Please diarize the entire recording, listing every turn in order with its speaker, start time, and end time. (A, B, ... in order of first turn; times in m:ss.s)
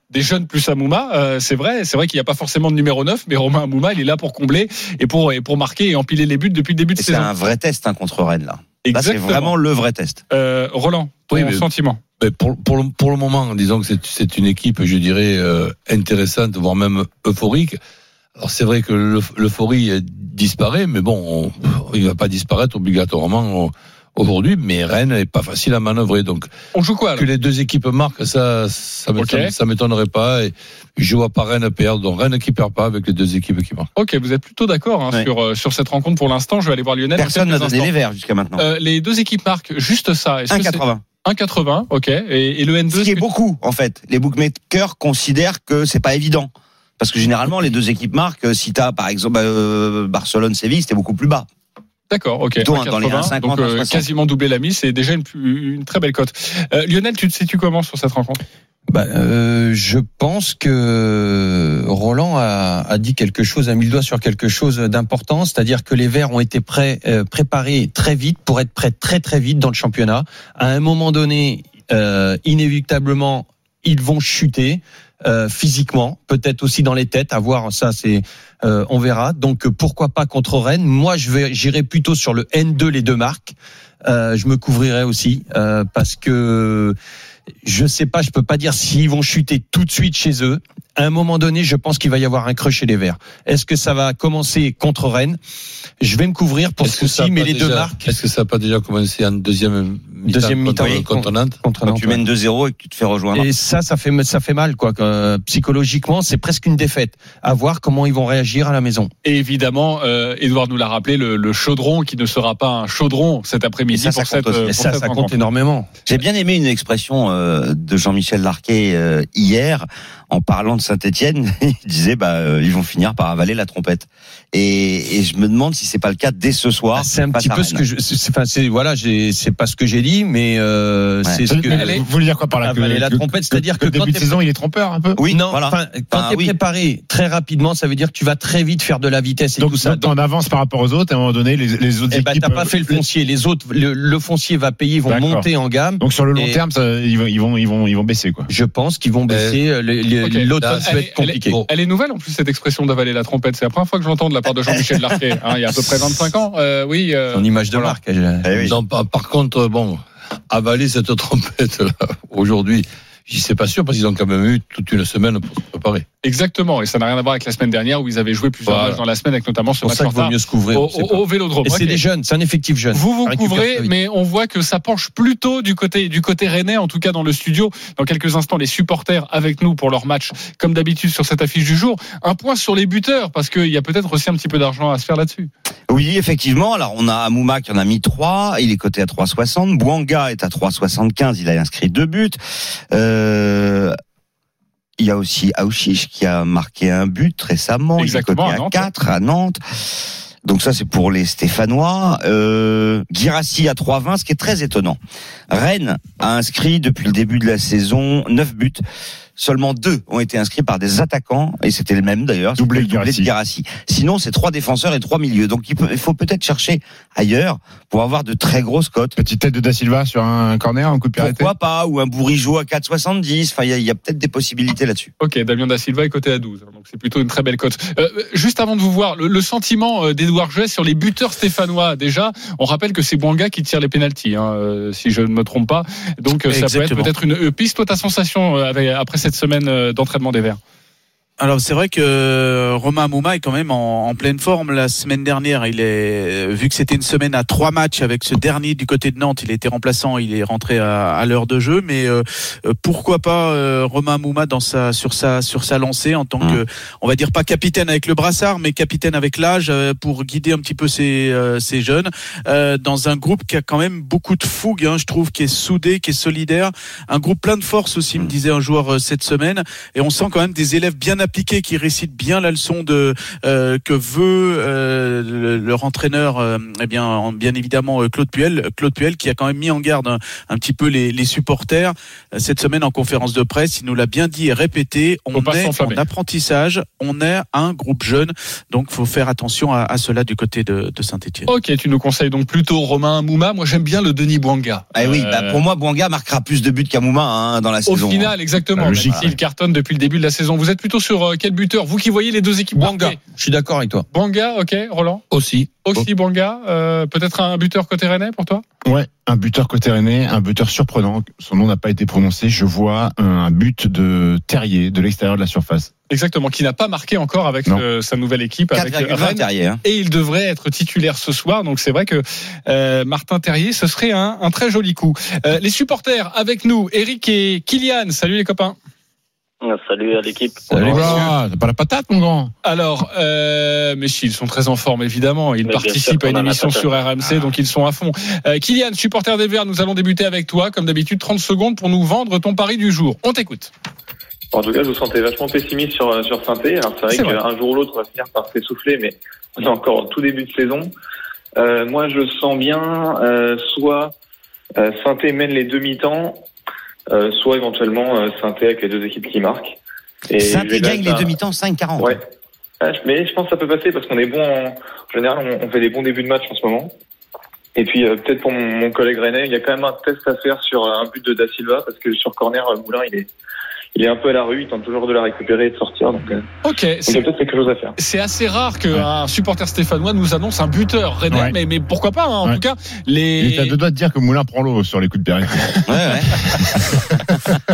0:00.1-0:07.5 A
0:07.0-0:10.2 B
0:08.8-0:09.6 A
0:10.3-0:12.0 A
0:11.3-0:11.6 C
0:12.2-0:17.8 C
0:18.4-0:26.5 C
0:26.7-0:27.3 A
0:27.2-0:33.9 C
0:29.2-0:29.5 A
0:34.0-0:37.9 A
0:37.2-0:38.6 B
0:38.6-0:43.2 A
0:40.5-0:41.0 B
0:42.9-0:51.5 B
0:52.1-0:58.4 A
0:52.6-0:54.0 B
0:58.9-1:27.0 D
1:27.6-1:35.4 D
1:36.0-1:38.1 D
1:36.8-1:41.6 C
1:40.3-1:42.2 D
1:41.9-1:43.5 B
1:43.3-1:49.1 D
1:49.2-1:55.4 A
1:53.9-1:54.7 B
1:54.7-1:55.9 D
1:56.1-2:07.8 B
2:07.0-2:12.0 D
2:11.5-2:15.2 E
2:11.7-2:12.0 A
2:12.6-2:14.4 D
2:15.2-2:16.5 B
2:15.3-2:20.1 D
2:19.6-2:23.0 E
2:22.1-2:26.6 D
2:25.1-2:25.5 E
2:26.0-2:28.5 E
2:28.5-2:31.6 D
2:29.3-2:29.6 C
2:30.2-2:37.9 A
2:30.6-2:31.7 C
2:37.3-2:38.6 D
2:38.4-2:38.8 B
2:38.6-2:46.0 C
2:46.2-2:52.0 A
2:48.7-2:49.0 C
2:49.8-2:53.9 D
2:52.9-3:05.5 A
3:05.9-3:12.4 B
3:12.9-3:13.9 B
3:15.0-3:19.6 B
3:18.0-3:18.9 A
3:20.4-3:25.0 B
3:25.5-3:28.8 B
3:29.4-3:39.2 B
3:32.6-3:33.3 E
3:39.2-3:41.5 E
3:41.2-3:45.1 B
3:45.2-4:00.6 A
3:56.5-3:57.1 F
4:01.4-4:51.5 F
4:45.3-4:46.0 A
4:51.5-4:55.6 A
4:55.0-4:58.4 B
4:57.9-5:03.2 A
4:58.8-4:59.4 E
4:58.9-4:59.2 B
5:02.7-5:04.1 D
5:04.1-5:05.2 A
5:05.3-5:06.1 C
5:05.8-5:08.6 A
5:08.8-5:15.9 E
5:16.1-5:28.8 A
5:18.7-5:19.8 B
5:29.6-5:30.7 G
5:30.7-5:32.5 E
5:30.9-5:31.3 A
5:32.6-5:43.7 A
5:35.7-5:36.9 G
5:44.5-5:50.9 H
5:47.1-5:47.4 A
5:51.6-5:54.2 H
5:54.8-5:56.5 H
5:57.1-6:01.4 H
6:00.4-6:02.2 B
6:02.8-6:07.0 H
6:07.8-6:13.3 H
6:14.0-6:16.5 H
6:16.6-6:17.3 A
6:17.1-6:18.0 H
6:18.0-6:23.8 A
6:21.3-6:21.6 E
6:23.4-6:26.7 E
6:25.9-6:27.0 B